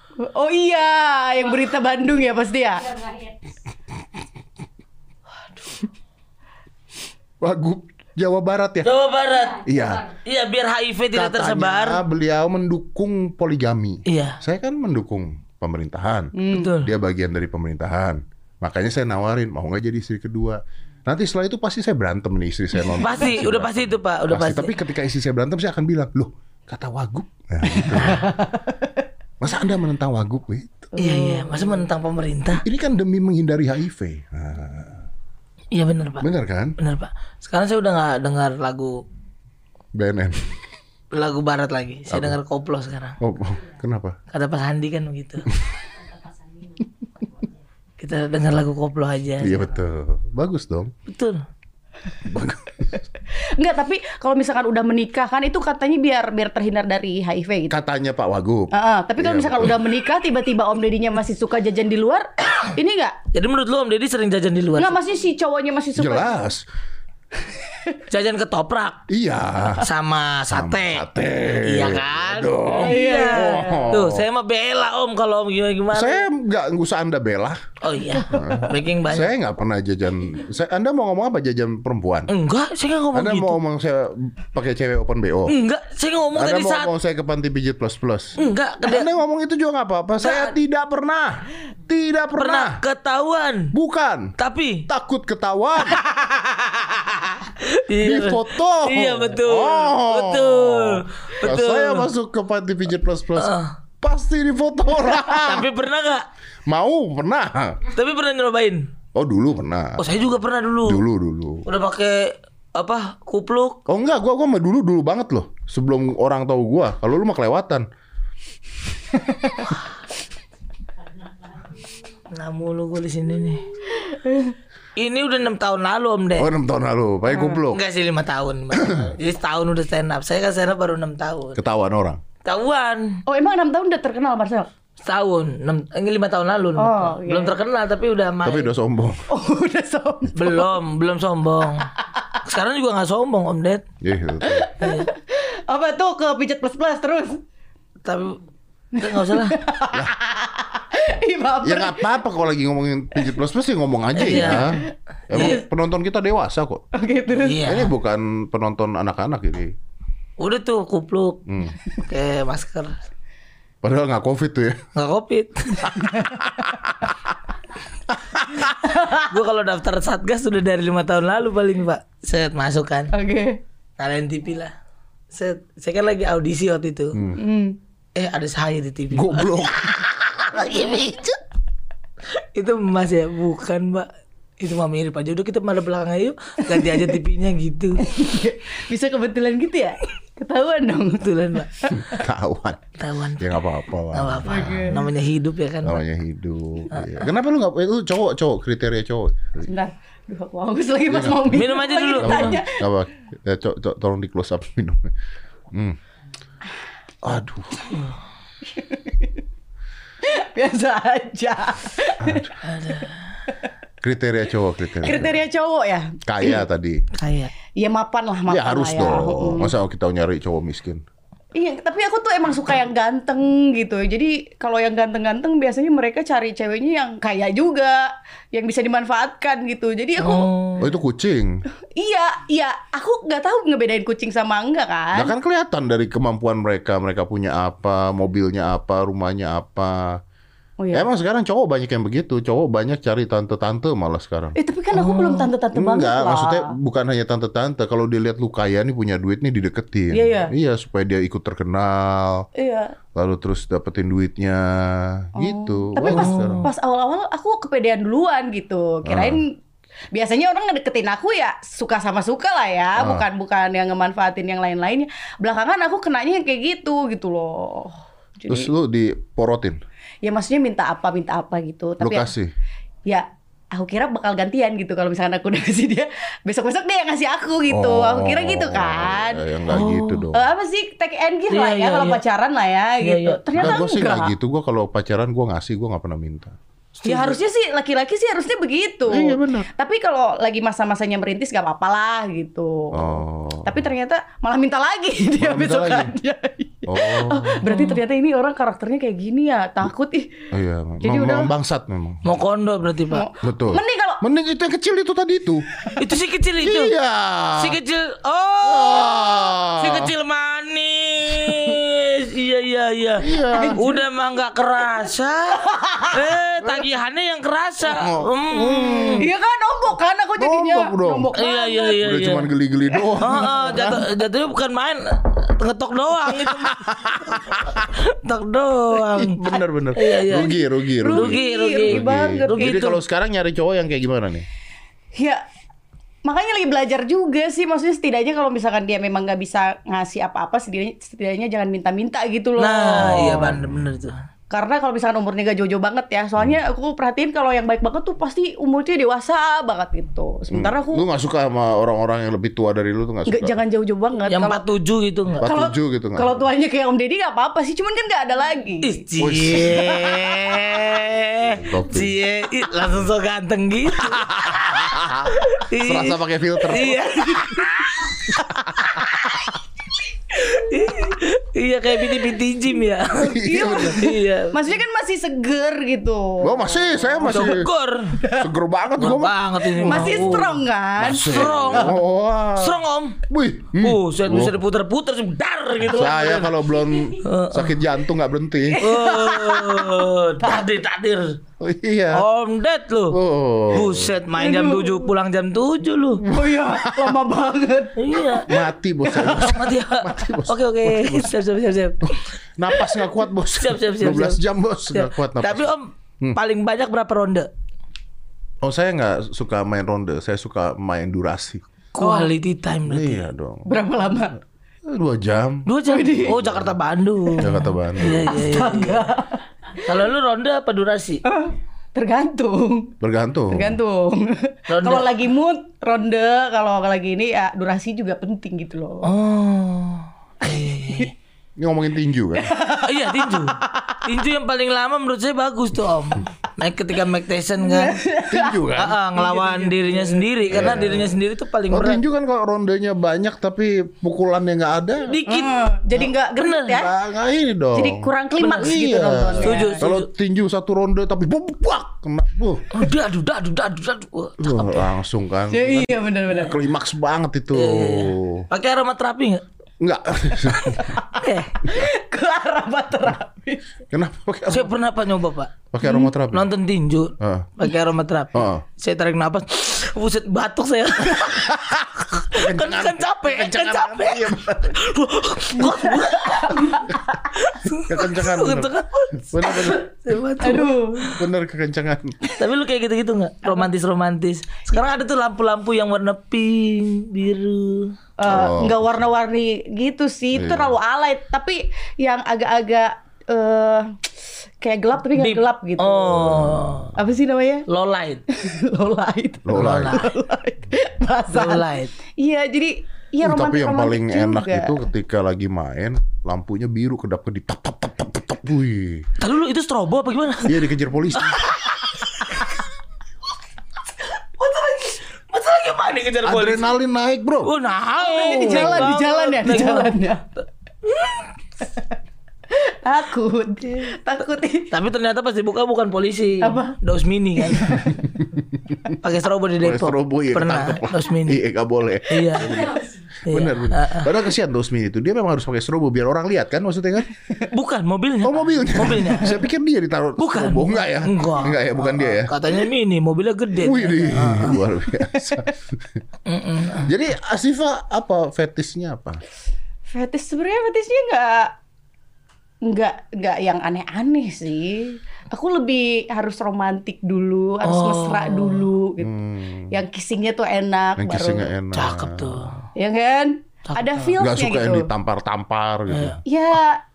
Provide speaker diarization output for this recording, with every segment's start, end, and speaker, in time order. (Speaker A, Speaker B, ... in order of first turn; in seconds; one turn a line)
Speaker A: 0.2-3.1
Speaker B: 7.4-8.9
Speaker C: 8.8-12.0
Speaker B: 9.6-10.1
Speaker B: 11.1-28.3
Speaker C: 14.1-14.4
Speaker A: 16.3-16.7
Speaker C: 16.5-16.9
Speaker C: 23.0-24.7
Speaker A: 27.7-28.9
Speaker B: 29.4-30.9
Speaker A: 30.9-31.7
Speaker C: 31.0-32.6
Speaker B: 32.6-35.1
Speaker C: 35.7-36.3
Speaker B: 36.2-36.8
Speaker C: 36.8-39.0
Speaker B: 39.9-40.5
Speaker C: 41.1-43.2
Speaker B: 42.1-42.4
Speaker B: 43.2-44.1
Speaker C: 44.3-45.5
Speaker C: 48.0-49.6
Speaker B: 49.4-50.9
Speaker C: 51.0-51.4
Speaker B: 52.2-52.9
Speaker A: 53.6-57.8
Speaker B: 57.7-59.8
Speaker A: 58.7-63.2
Speaker C: 63.3-65.0
Speaker A: 64.8-66.5
Speaker B: 66.0-66.6
Speaker A: 67.5-68.0
Speaker C: 68.1-69.0
Speaker B: 69.1-69.9
Speaker C: 69.8-71.0
Speaker B: 70.5-74.2
Speaker C: 71.6-76.2
Speaker A: 72.7-73.9
Speaker B: 75.9-77.6
Speaker C: 77.8-79.3
Speaker B: 78.3-82.3
Speaker C: 82.3-83.6
Speaker B: 83.1-85.5
Speaker C: 85.5-86.9
Speaker B: 86.3-92.8
Speaker C: 88.4-89.1
Speaker C: 90.2-90.5
Speaker C: 92.4-93.7
Speaker B: 93.7-94.3
Speaker C: 94.4-94.9
Speaker B: 94.9-96.0
Speaker C: 96.0-102.1
Speaker B: 98.0-105.7
Speaker C: 103.3-103.7
Speaker C: 105.3-106.2
Speaker B: 106.7-107.8
Speaker C: 107.9-108.8
Speaker B: 109.1-110.2
Speaker C: 110.0-111.0
Speaker B: 110.8-111.7
Speaker C: 111.7-113.8
Speaker B: 113.9-117.8
Speaker C: 122.3-123.6
Speaker A: 123.9-124.5
Speaker C: 125.0-126.5
Speaker B: 126.3-127.8
Speaker C: 127.5-131.6
Speaker B: 128.7-129.1
Speaker B: 131.5-132.2
Speaker C: 132.4-133.2
Speaker A: 133.2-134.7
Speaker C: 135.0-138.7
Speaker A: 136.8-137.6
Speaker B: 138.4-139.2
Speaker A: 139.3-140.7
Speaker C: 140.3-141.9
Speaker C: 142.4-143.8
Speaker B: 144.0-144.7
Speaker A: 144.4-147.4
Speaker C: 144.8-145.1
Speaker C: 148.0-148.4
Speaker C: 148.9-149.6
Speaker A: 148.9-152.2
Speaker B: 151.6-156.8
Speaker C: 154.2-154.8
Speaker A: 154.3-155.6
Speaker C: 155.3-155.6
Speaker A: 156.9-157.7
Speaker C: 157.4-157.9
Speaker B: 157.6-159.7
Speaker C: 160.4-162.9
Speaker B: 161.5-161.8
Speaker B: 163.8-164.9
Speaker C: 164.9-166.0
Speaker A: 165.9-166.7
Speaker B: 166.5-167.1
Speaker A: 168.7-169.3
Speaker C: 169.1-173.1
Speaker A: 173.1-173.6
Speaker C: 174.0-174.7
Speaker C: 175.3-177.2
Speaker B: 177.1-177.4
Speaker A: 177.4-177.8
Speaker C: 178.1-181.3
Speaker B: 179.1-180.0
Speaker B: 180.8-181.2
Speaker C: 182.3-184.1
Speaker C: 184.6-188.0
Speaker A: 186.7-187.1
Speaker A: 188.0-192.1
Speaker C: 191.2-191.7
Speaker B: 191.9-195.0
Speaker C: 193.0-193.5
Speaker C: 194.1-196.0
Speaker A: 194.4-195.0
Speaker B: 195.8-199.7
Speaker C: 196.9-197.2
Speaker A: 199.6-202.8
Speaker B: 201.1-201.6
Speaker C: 201.5-202.6
Speaker B: 202.2-205.1
Speaker B: 205.7-206.0
Speaker B: 207.2-207.8
Speaker A: 208.7-209.3
Speaker A: 210.2-212.5
Speaker B: 212.2-212.5
Speaker C: 212.6-213.2
Speaker B: 214.0-215.4
Speaker A: 215.0-216.6
Speaker B: 216.2-217.0
Speaker C: 217.1-217.5
Speaker A: 217.8-219.7
Speaker B: 218.5-221.0
Speaker A: 221.5-230.5
Speaker C: 230.2-230.9
Speaker B: 230.8-231.6
Speaker A: 231.9-235.3
Speaker B: 235.1-240.2
Speaker A: 240.8-241.1
Speaker B: 240.9-244.6
Speaker A: 244.5-246.7
Speaker C: 244.9-245.5
Speaker B: 245.7-252.5
Speaker A: 250.1-250.5
Speaker A: 252.5-252.9
Speaker B: 253.1-256.7
Speaker A: 255.3-259.5
Speaker C: 256.0-256.7
Speaker B: 259.0-259.4
Speaker A: 260.1-268.7
Speaker B: 262.9-263.2
Speaker B: 268.5-269.8
Speaker A: 270.2-272.3
Speaker B: 272.0-272.5
Speaker A: 273.1-284.3
Speaker B: 277.7-280.4
Speaker C: 279.7-280.2
Speaker C: 281.5-282.2
Speaker C: 283.0-283.8
Speaker B: 283.6-286.6
Speaker C: 287.0-287.4
Speaker A: 287.0-300.5
Speaker B: 289.1-289.7
Speaker B: 292.9-293.9
Speaker B: 295.4-296.1
Speaker B: 296.9-297.7
Speaker C: 297.7-297.9
Speaker B: 300.5-302.3
Speaker A: 301.0-301.5
Speaker C: 302.2-303.3
Speaker A: 303.1-304.2
Speaker B: 303.4-305.6
Speaker C: 306.0-306.9
Speaker B: 306.6-307.8
Speaker C: 307.5-319.3
Speaker B: 308.6-310.1
Speaker B: 311.4-311.8
Speaker B: 313.2-313.8
Speaker A: 313.5-314.0
Speaker A: 315.5-316.2
Speaker B: 317.8-319.2
Speaker A: 319.1-322.0
Speaker B: 320.4-321.3
Speaker C: 321.4-322.5
Speaker B: 322.0-324.0
Speaker A: 323.1-324.0
Speaker C: 323.2-333.0
Speaker B: 326.4-327.9
Speaker B: 329.1-334.5
Speaker A: 331.0-332.9
Speaker A: 335.1-335.4
Speaker A: 336.2-343.6
Speaker C: 342.6-344.2
Speaker B: 343.0-343.9
Speaker A: 344.5-351.0
Speaker B: 350.5-353.6
Speaker A: 353.3-354.6
Speaker C: 354.3-355.4
Speaker B: 355.4-356.4
Speaker A: 355.4-359.0
Speaker C: 358.8-368.3
Speaker B: 359.2-359.8
Speaker A: 359.5-360.8
Speaker B: 361.5-362.1
Speaker B: 363.9-367.4
Speaker C: 368.9-369.4
Speaker C: 370.3-374.6
Speaker B: 373.1-374.0
Speaker A: 373.4-377.6
Speaker B: 376.4-377.7
Speaker C: 377.3-378.2
Speaker A: 378.2-378.5
Speaker B: 378.3-380.4
Speaker C: 379.0-382.0
Speaker A: 379.8-381.9
Speaker B: 381.0-384.6
Speaker C: 382.5-383.2
Speaker C: 383.8-386.6
Speaker B: 385.8-388.8
Speaker C: 387.2-387.8
Speaker A: 388.7-390.6
Speaker C: 388.8-391.4
Speaker B: 391.6-392.2
Speaker C: 392.1-396.2
Speaker B: 393.1-394.1
Speaker A: 394.3-395.1
Speaker A: 396.2-398.5
Speaker B: 396.4-397.1
Speaker C: 398.0-398.5
Speaker B: 398.4-401.4
Speaker A: 399.1-399.5
Speaker C: 399.2-402.2
Speaker B: 402.0-405.7
Speaker C: 402.8-404.4
Speaker C: 404.9-407.5
Speaker B: 408.6-411.6
Speaker C: 411.9-413.2
Speaker A: 412.0-412.3
Speaker B: 412.9-413.7
Speaker A: 413.6-414.4
Speaker B: 414.8-415.7
Speaker C: 415.7-419.1
Speaker A: 415.8-416.4
Speaker B: 416.2-416.7
Speaker B: 417.4-418.3
Speaker A: 418.0-419.9
Speaker C: 419.8-421.2
Speaker A: 421.2-422.9
Speaker B: 423.0-423.8
Speaker A: 423.5-429.1
Speaker C: 424.7-425.1
Speaker C: 429.0-431.1
Speaker A: 430.5-431.1
Speaker B: 431.6-432.5
Speaker A: 432.4-434.0
Speaker C: 432.8-438.0
Speaker A: 437.6-440.8
Speaker B: 438.3-439.0
Speaker C: 438.7-442.0
Speaker B: 440.5-441.2
Speaker B: 441.7-445.2
Speaker C: 445.1-445.7
Speaker A: 445.2-446.9
Speaker C: 446.4-446.8
Speaker B: 446.7-452.7
Speaker A: 447.7-449.8
Speaker C: 448.4-448.7
Speaker C: 449.4-450.1
Speaker C: 452.7-454.9
Speaker B: 454.4-458.5
Speaker A: 455.5-456.6
Speaker C: 457.5-459.4
Speaker B: 459.8-461.0
Speaker A: 460.8-463.6
Speaker C: 461.2-461.6
Speaker B: 463.9-464.7
Speaker C: 464.5-465.6
Speaker B: 465.7-466.5
Speaker A: 465.8-466.1
Speaker C: 466.3-481.2
Speaker B: 467.2-467.5
Speaker B: 468.3-468.6
Speaker B: 471.5-474.8
Speaker A: 475.6-477.2
Speaker B: 477.8-478.7
Speaker B: 479.3-479.9
Speaker A: 480.4-481.1
Speaker B: 481.1-482.2
Speaker C: 482.3-487.9
Speaker A: 488.2-494.0
Speaker B: 488.2-489.0
Speaker B: 490.3-490.8
Speaker A: 494.6-496.4
Speaker C: 495.1-496.9
Speaker B: 496.1-496.9
Speaker A: 496.9-497.6
Speaker C: 497.7-498.2
Speaker A: 498.3-504.9
Speaker B: 499.4-500.0
Speaker C: 499.5-500.1
Speaker C: 501.3-501.9
Speaker B: 503.2-509.1
Speaker C: 509.2-512.5
Speaker B: 510.4-511.5
Speaker C: 514.4-516.7
Speaker B: 516.2-517.5
Speaker C: 517.4-520.0
Speaker A: 518.0-520.2
Speaker B: 518.3-518.8
Speaker C: 520.9-521.2
Speaker A: 522.5-524.7
Speaker C: 524.7-527.9
Speaker A: 526.4-526.8
Speaker A: 527.4-527.9
Speaker C: 529.0-531.4
Speaker B: 529.6-537.1
Speaker C: 532.1-532.6
Speaker C: 533.3-534.1
Speaker C: 537.5-539.4
Speaker B: 538.2-542.4
Speaker C: 540.2-544.6
Speaker B: 543.6-546.0
Speaker C: 546.2-546.9
Speaker B: 546.8-549.2
Speaker A: 549.9-551.5
Speaker A: 552.6-559.1
Speaker C: 557.6-558.7
Speaker B: 559.0-559.7
Speaker A: 559.7-561.5
Speaker B: 561.0-562.6
Speaker C: 561.7-562.5
Speaker A: 562.8-564.9
Speaker C: 563.7-564.1
Speaker B: 564.2-566.2
Speaker C: 565.9-566.2
Speaker A: 566.2-566.8